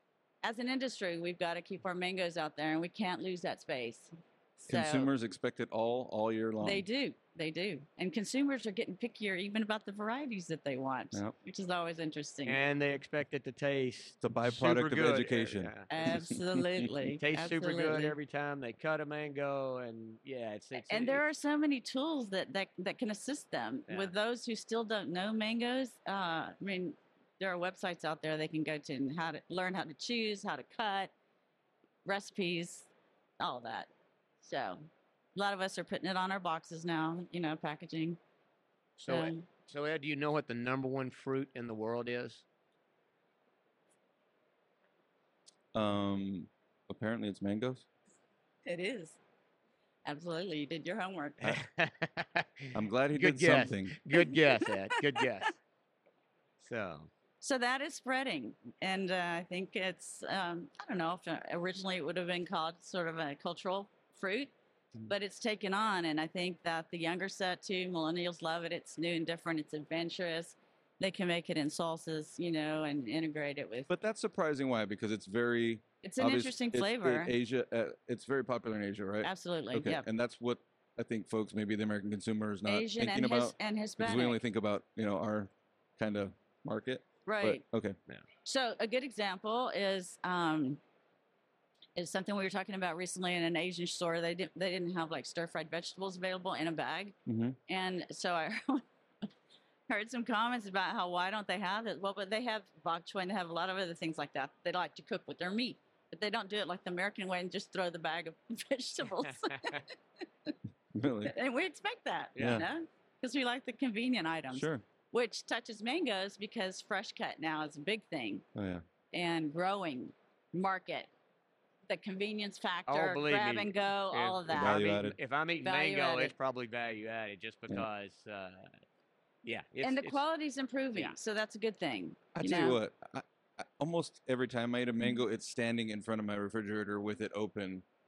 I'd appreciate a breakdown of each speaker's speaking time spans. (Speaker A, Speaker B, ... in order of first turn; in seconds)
Speaker A: 0.4-5.1, 6.6-12.6, 15.9-18.1, 20.9-31.1, 32.0-32.9, 33.4-33.9, 34.4-34.8, 35.4-38.2, 39.1-39.4, 48.6-49.2, 50.0-51.6, 54.1-55.0, 57.4-64.5, 65.1-73.9, 76.0-77.3, 79.2-80.1, 82.7-84.4, 87.3-87.7, 88.5-90.8, 92.0-97.2, 97.7-99.3, 99.9-109.9, 111.2-118.5, 119.1-121.1, 121.9-124.9, 125.6-126.3, 129.8-132.8
Speaker B: 4.7-6.9, 14.2-16.8, 45.7-47.9, 52.7-54.0, 73.9-88.0, 97.3-97.6, 111.0-111.3, 112.4-112.7, 114.5-114.8, 118.5-118.8, 124.5-125.2, 132.3-137.8
Speaker C: 12.4-15.9, 17.2-21.2, 23.9-24.1, 39.0-42.5, 51.4-55.6, 56.6-57.1, 112.4-112.7, 122.9-128.7, 129.4-130.2